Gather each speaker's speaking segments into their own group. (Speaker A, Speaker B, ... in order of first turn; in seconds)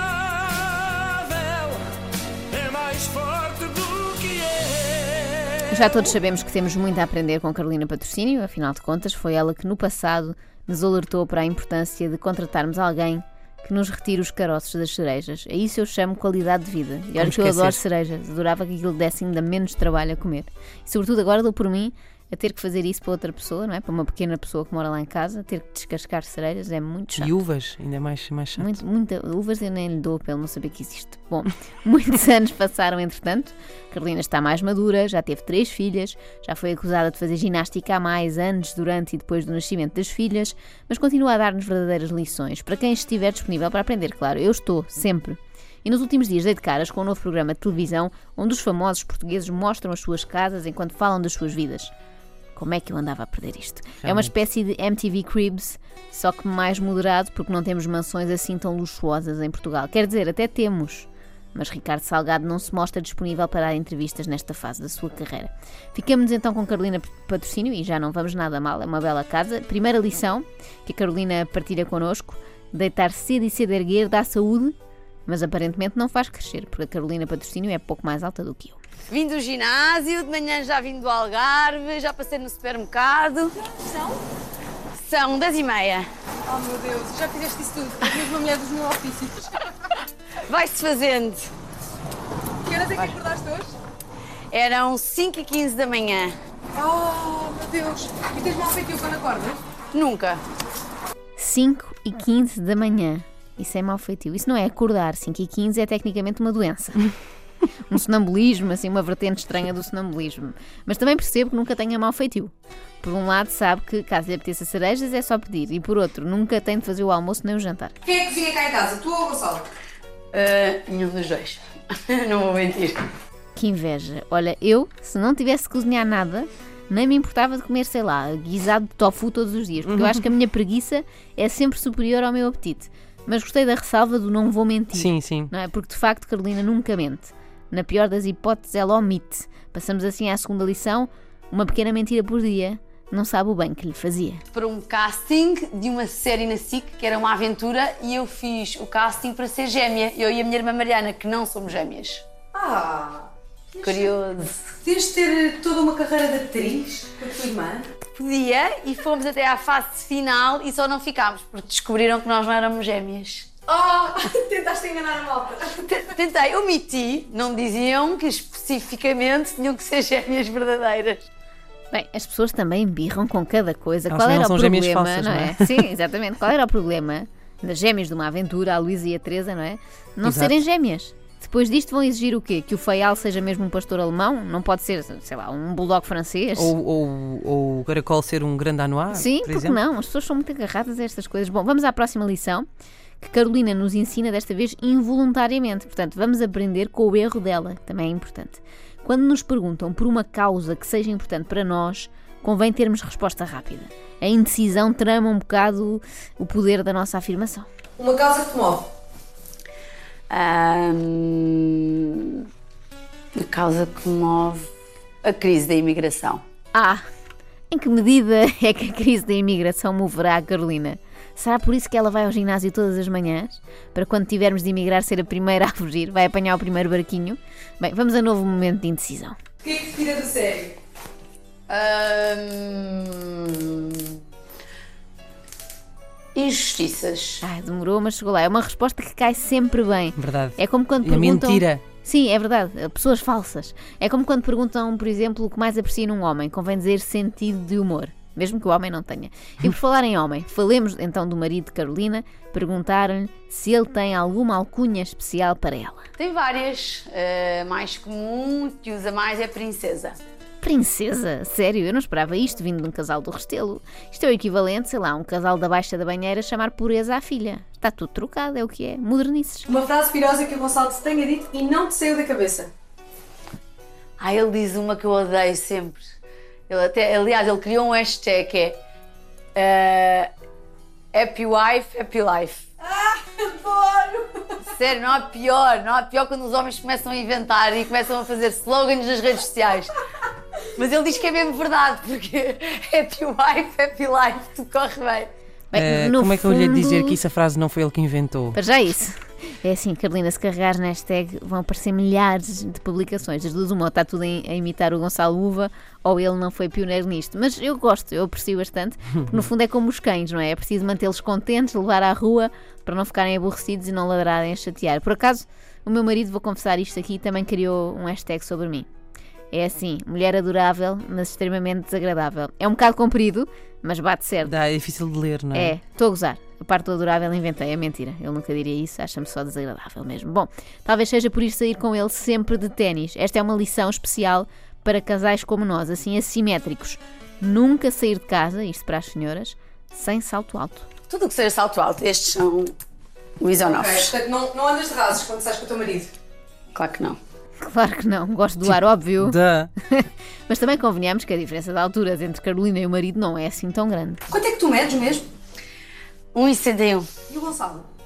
Speaker A: 1.3-1.8, 2.5-5.3
Speaker B: 5.7-27.4, 28.6-51.9, 52.5-78.8, 101.4-107.1, 107.9-117.9, 123.5-144.4, 171.9-186.7, 189.1-192.7, 193.2-207.7, 216.7-217.0, 217.7-229.4, 237.4-256.1, 260.6-269.7, 295.7-297.2, 298.5-318.9, 319.5-324.5, 325.5-340.9, 347.6-354.2
Speaker C: 17.2-17.8, 27.1-28.7, 54.0-54.3, 129.8-130.2, 134.9-135.5, 174.1-175.9, 180.2-180.6, 186.6-189.8, 240.2-241.8, 295.7-298.6, 324.4-325.8, 349.2-349.7
Speaker D: 79.1-83.6, 85.0-86.1, 90.4-91.5, 94.5-96.3, 99.9-100.4, 120.3-123.0, 144.5-152.2, 153.8-154.7, 158.1-163.6, 165.8-171.3, 210.3-212.5, 213.4-214.7, 215.2-216.4, 231.7-234.2, 236.3-237.4, 256.2-260.2, 274.2-276.1, 276.7-278.8, 279.6-280.3, 281.1-282.7, 284.7-290.0, 290.7-295.3, 341.1-342.8, 343.4-344.1, 346.8-347.2, 356.3-357.1
Speaker E: 83.7-84.2, 86.5-89.7, 92.7-93.7, 96.8-99.6, 118.0-119.7, 152.5-154.2, 154.8-157.9, 163.7-165.8, 208.0-208.9, 229.6-230.8, 269.7-272.7, 282.8-284.6, 343.7-346.1, 354.3-355.3, 357.3-357.9